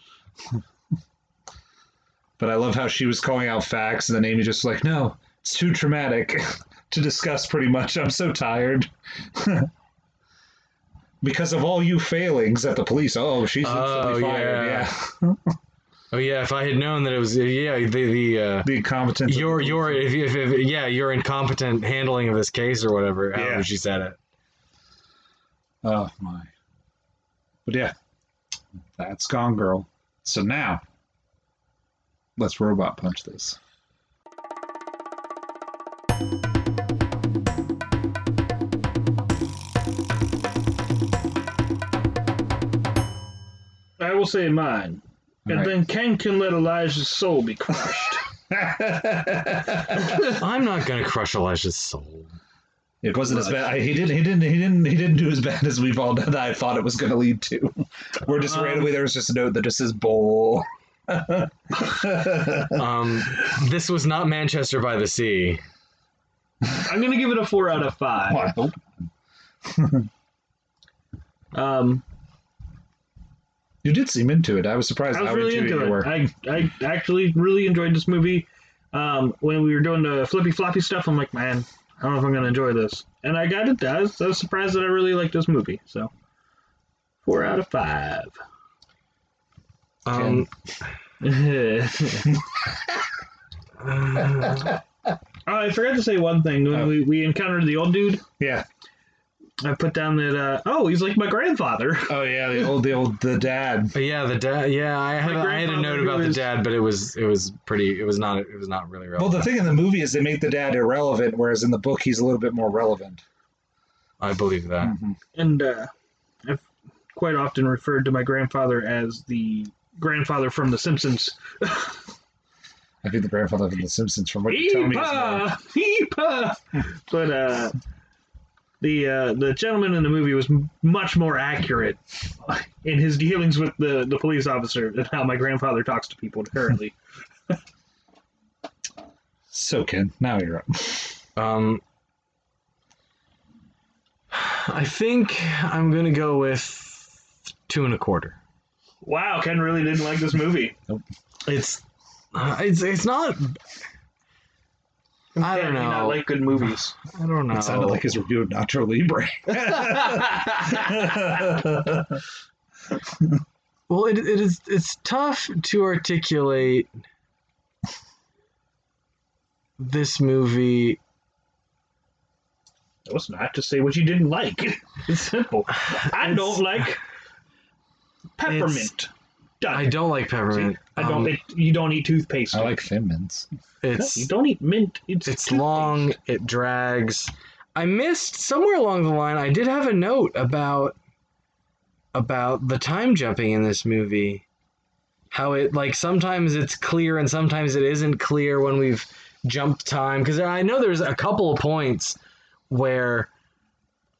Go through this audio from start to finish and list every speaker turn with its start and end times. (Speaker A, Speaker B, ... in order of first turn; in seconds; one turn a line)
Speaker A: 2.4-9.7
Speaker A: 11.2-15.6
Speaker B: 13.6-14.9
Speaker B: 16.1-18.7
Speaker A: 18.6-20.1
Speaker B: 19.3-24.2
Speaker A: 23.4-23.7
Speaker A: 25.8-26.5
Speaker A: 27.7-27.9
Speaker A: 28.9-30.8
Speaker A: 32.4-33.6
Speaker C: 44.0-48.2
Speaker A: 45.5-45.8
Speaker A: 48.5-50.3
Speaker B: 50.2-52.3
Speaker A: 53.0-62.8
Speaker C: 53.3-53.6
Speaker B: 62.7-65.6
Speaker C: 66.7-68.5
Speaker A: 68.3-69.1
Speaker A: 69.7-70.1
Speaker C: 71.5-72.0
Speaker A: 73.8-76.3
Speaker C: 75.1-86.1
Speaker C: 87.3-88.4
Speaker B: 90.0-90.5
Speaker A: 90.1-90.5
Speaker C: 91.2-92.4
Speaker B: 93.8-94.8
Speaker C: 95.5-98.2
Speaker A: 98.4-98.7
Speaker C: 99.6-102.2
Speaker A: 102.1-103.9
Speaker B: 103.9-109.5
Speaker C: 105.2-106.5
Speaker A: 109.2-113.2
Speaker B: 114.2-115.0
Speaker A: 114.8-115.2
Speaker C: 115.3-115.9
Speaker C: 117.1-122.0
Speaker A: 123.0-125.5
Speaker C: 124.5-127.8
Speaker C: 128.8-136.9
Speaker A: 139.5-141.2
Speaker B: 141.4-141.8
Speaker B: 144.3-148.4
Speaker C: 149.0-150.8
Speaker B: 151.5-153.6
Speaker B: 155.4-156.3
Speaker C: 155.4-157.0
Speaker B: 157.1-158.0
Speaker A: 157.5-162.2
Speaker B: 163.9-166.9
Speaker B: 169.8-171.0
Speaker C: 173.1-177.0
Speaker C: 178.4-179.1
Speaker B: 178.4-178.9
Speaker C: 179.6-182.8
Speaker B: 179.7-181.3
Speaker A: 182.5-183.5
Speaker B: 183.8-184.3
Speaker C: 184.0-186.1
Speaker B: 185.3-191.0
Speaker B: 192.1-194.4
Speaker B: 195.3-202.2
Speaker B: 202.7-203.3